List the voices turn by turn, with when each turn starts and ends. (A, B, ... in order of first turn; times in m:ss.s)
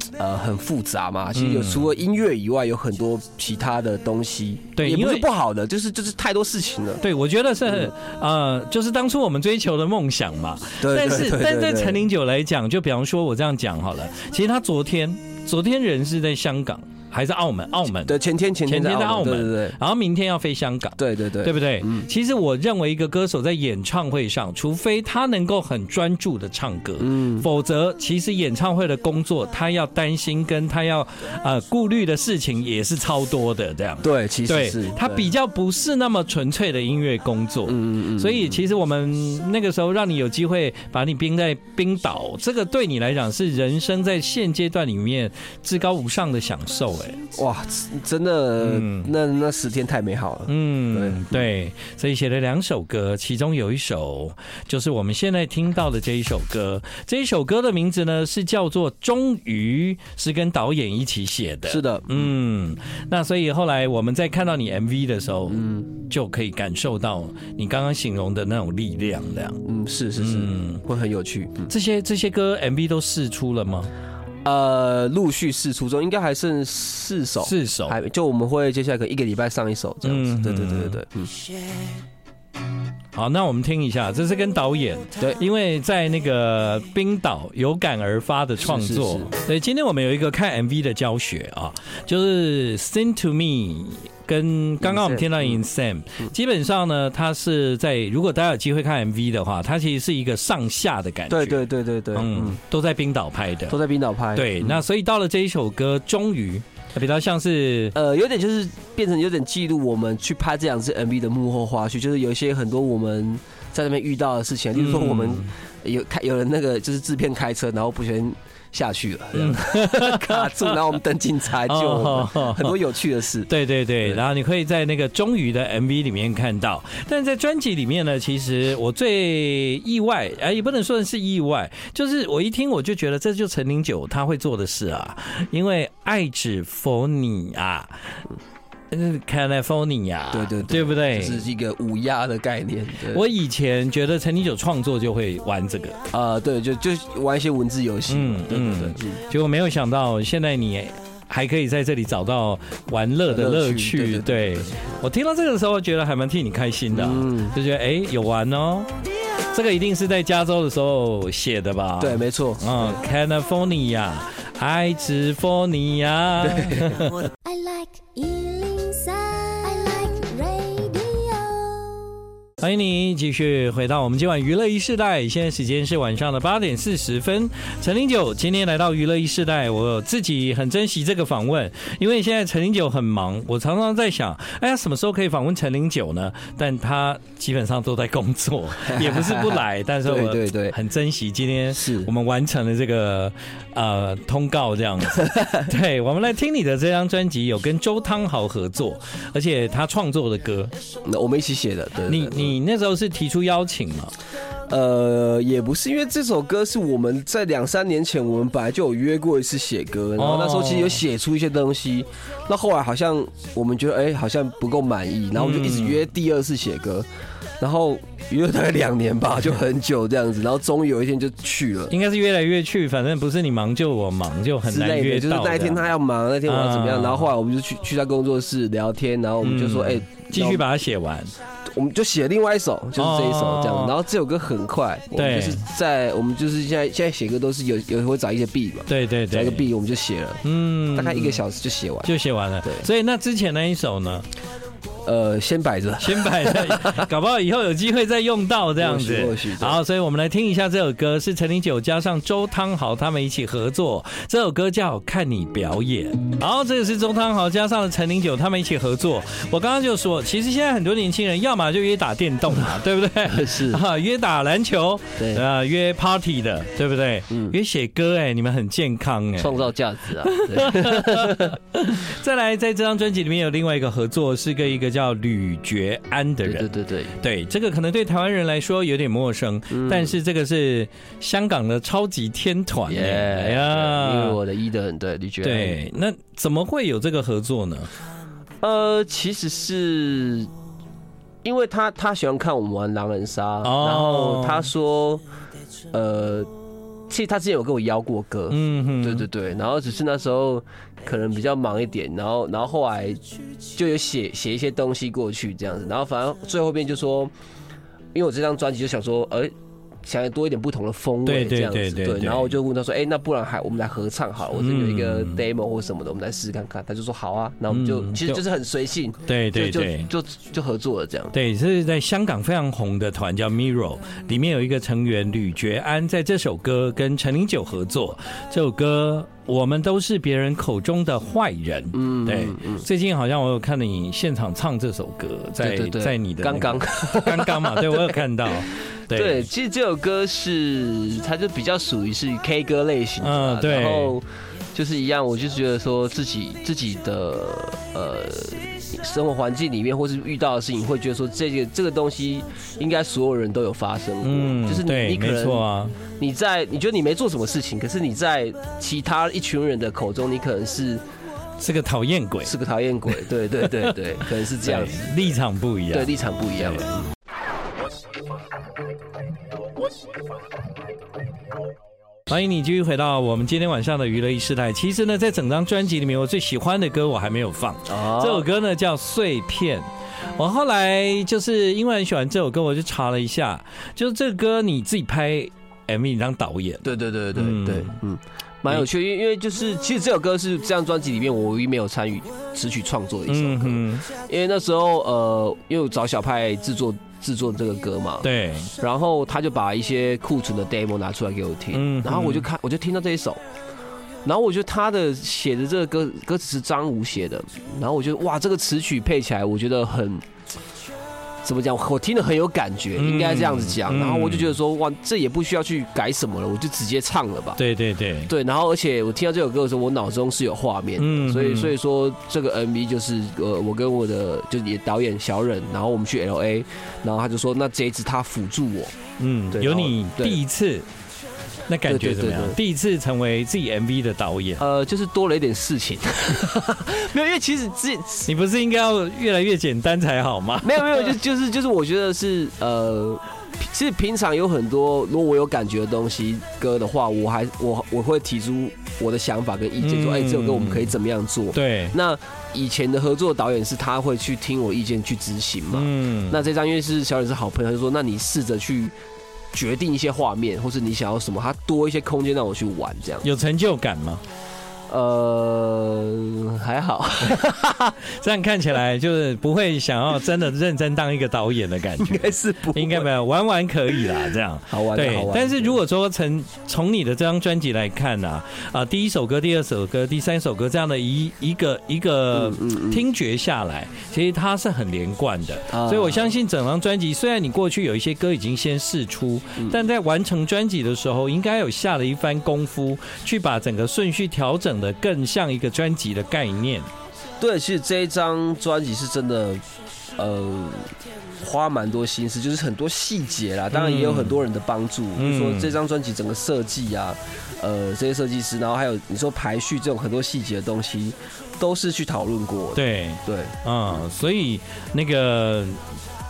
0:00.2-0:07.0 A
0:01.4-0:01.9 B
0:04.8-0:05.2 B
0:07.0-0:47.2 B
0:10.8-0:12.1 A
0:18.0-0:19.8 A
0:21.0-0:22.1 A
0:27.0-0:27.5 A
0:34.0-0:35.3 A
0:37.7-0:38.6 A
0:47.4-0:51.5 A
0:48.6-0:49.1 B
0:50.5-1:09.6 B
1:01.7-1:02.2 A
1:05.5-1:05.9 A
1:09.6-1:11.7 A
1:10.2-1:10.8 B
1:11.7-1:13.9 B
1:14.4-1:21.3 A
1:17.4-1:18.0 B
1:20.0-1:21.0 B
1:23.1-1:41.6 B
1:28.6-1:29.3 A
1:34.8-1:35.6 A
1:41.3-1:42.6 A
1:42.1-1:43.8 B
1:43.7-1:44.8 A
1:44.4-1:48.0 B
1:47.9-2:03.5 A
1:54.8-1:55.5 B
1:59.3-2:00.8 B
2:01.6-2:02.8 B
2:03.5-2:18.2 B
2:18.9-2:21.4 B
2:20.3-2:23.2 A
2:23.1-2:26.0 B
2:26.1-2:29.2 A
2:28.1-2:38.9 B
2:33.3-2:35.0 A
2:36.9-2:37.6 A
2:39.5-2:47.2 B
2:42.0-2:43.0 A
2:46.4-2:47.1 A
2:47.4-2:52.2 C
2:52.6-3:20.7 B
3:08.8-3:10.8 A
3:11.7-3:12.1 A
3:15.2-3:15.5 A
3:21.0-3:22.6 A
3:22.1-3:24.1 B
3:24.7-3:37.1 A
3:30.2-3:31.0 B
3:35.4-3:36.0 B
3:37.6-3:41.9 A
3:41.9-3:45.9 B
3:44.7-3:50.7 A
3:46.5-3:47.3 B
3:49.4-3:51.3 B
3:51.7-4:02.1 A
3:53.0-3:54.0 B
3:55.1-3:55.6 B
3:58.9-3:59.7 B
4:00.4-4:01.4 B
4:02.0-4:04.2 B
4:02.6-4:02.9 A
4:05.0-4:07.1 A
4:06.0-4:29.7 B
4:08.8-4:09.8 A
4:23.2-4:23.8 A
4:25.2-4:25.4 A
4:27.3-4:27.6 A
4:29.4-4:31.6 A
4:30.2-4:44.4 B
4:36.4-4:37.1 A
4:39.7-4:40.2 A
4:42.9-4:45.8 A
4:45.4-4:47.9 B
4:48.6-4:50.5 A
4:51.4-4:55.2 A
4:53.6-4:54.7 B
4:55.9-4:56.5 A
4:57.1-5:07.3 A
4:58.5-4:59.2 B
5:08.1-5:09.5 A
5:10.0-5:21.3 A
5:11.2-5:12.6 B
5:14.6-5:15.4 B
5:17.7-5:18.4 B
5:19.3-5:20.1 B
5:21.3-5:39.5 B
5:31.9-5:32.9 A
5:35.6-5:38.5 A
5:39.1-5:55.6 A
5:43.2-5:44.2 B
5:54.2-5:56.0 B
5:56.2-6:01.0 A
6:01.6-6:02.5 B
6:02.4-6:05.4 A
6:03.6-6:03.9 B
6:04.5-6:07.0 B
6:05.9-6:07.0 A
6:12.3-6:28.0 B
6:17.9-6:18.5 A
6:26.8-6:38.3 A
6:33.3-6:34.1 B
6:38.2-6:38.7 B
6:38.8-6:43.4 A
6:41.7-6:42.5 B
6:44.2-6:50.2 A
6:51.4-6:57.6 A
6:53.0-6:54.5 B
6:57.6-6:58.3 B
6:58.3-7:08.9 A
7:01.0-7:01.7 B
7:09.2-7:10.9 B
7:09.5-7:10.4 A
7:11.7-7:14.6 B
7:11.9-7:12.6 A
7:14.6-7:18.3 A
7:18.2-7:21.2 B
7:20.6-7:38.9 A
7:29.8-7:31.0 B
7:31.5-7:32.0 B
7:35.7-7:36.4 B
7:39.5-7:43.3 A
7:43.2-7:44.2 B
7:44.9-7:48.0 A
7:48.1-8:16.9 B
7:52.0-7:53.1 A
7:53.9-7:55.8 A
8:02.3-8:03.0 A
8:05.7-8:06.3 A
8:17.4-8:19.6 A
8:20.2-8:33.6 A
8:23.7-8:24.4 B
8:25.2-8:25.8 B
8:32.8-8:35.8 B